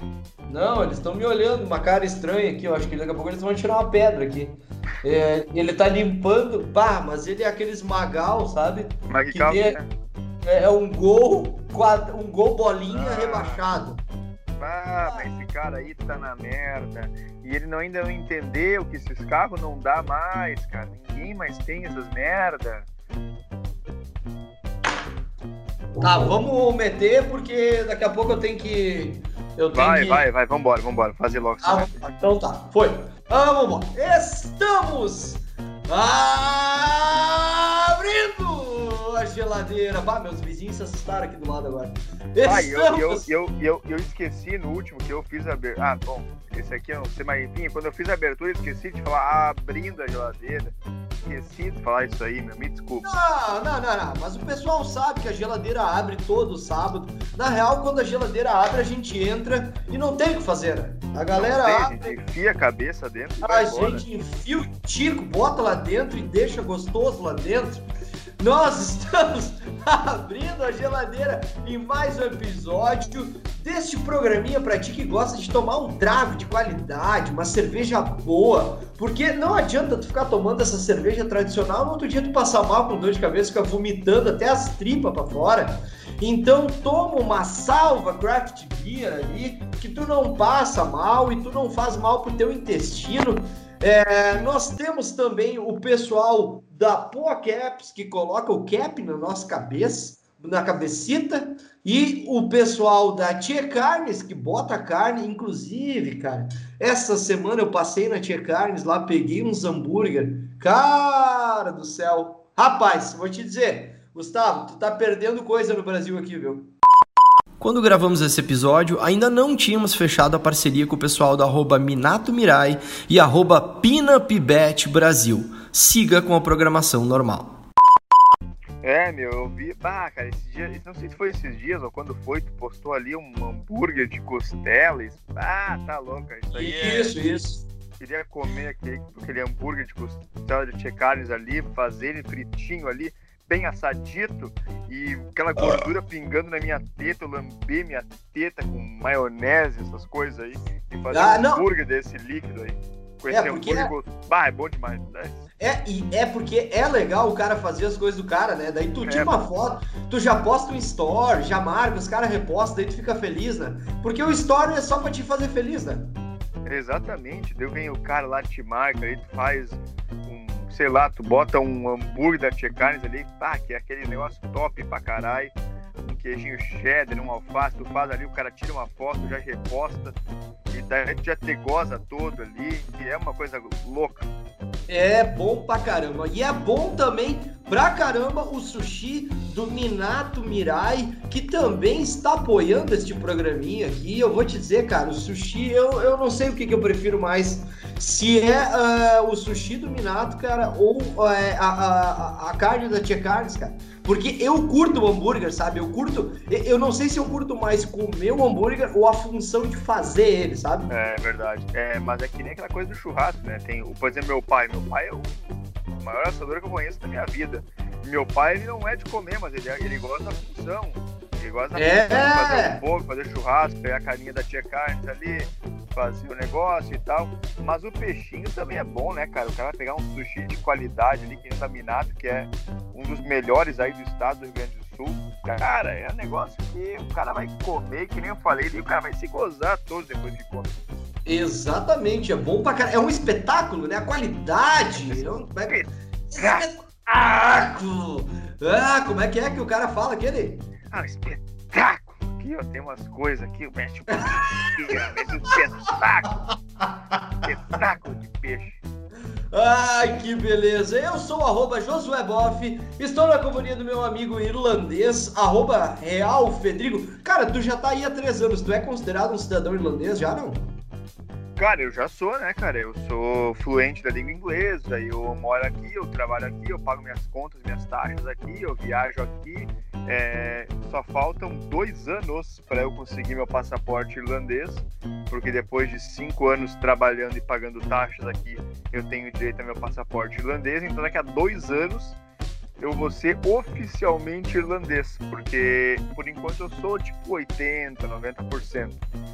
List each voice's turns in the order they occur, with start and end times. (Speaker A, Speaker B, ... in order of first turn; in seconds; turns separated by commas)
Speaker A: 0.5-9.8, Speaker B: 9.1-9.9, Speaker A: 10.4-14.0, Speaker B: 12.9-13.6, Speaker B: 14.6-22.9, Speaker A: 15.0-15.3, Speaker A: 26.0-30.2, Speaker B: 29.7-32.0, Speaker A: 31.6-43.2, Speaker B: 42.4-53.1, Speaker A: 53.0-62.1, Speaker B: 61.3-64.0, Speaker A: 63.4-67.8, Speaker A: 68.4-116.7, Speaker C: 117.6-127.5, Speaker B: 128.8-137.2, Speaker A: 136.5-137.6, Speaker B: 138.0-155.4, Speaker A: 145.6-145.9, Speaker A: 151.1-151.6, Speaker A: 153.3-153.9, Speaker A: 155.6-166.1, Speaker B: 159.0-159.4, Speaker B: 166.7-180.2, Speaker B: 180.7-184.3, Speaker A: 184.9-210.9, Speaker B: 210.9-240.8, Speaker A: 221.8-222.8, Speaker A: 241.2-245.8, Speaker B: 245.1-246.7, Speaker A: 246.3-250.7, Speaker B: 250.9-256.4, Speaker A: 254.2-254.7, Speaker A: 256.5-257.4, Speaker B: 257.4-258.8, Speaker A: 259.5-270.7, Speaker B: 271.6-292.2, Speaker B: 292.8-299.0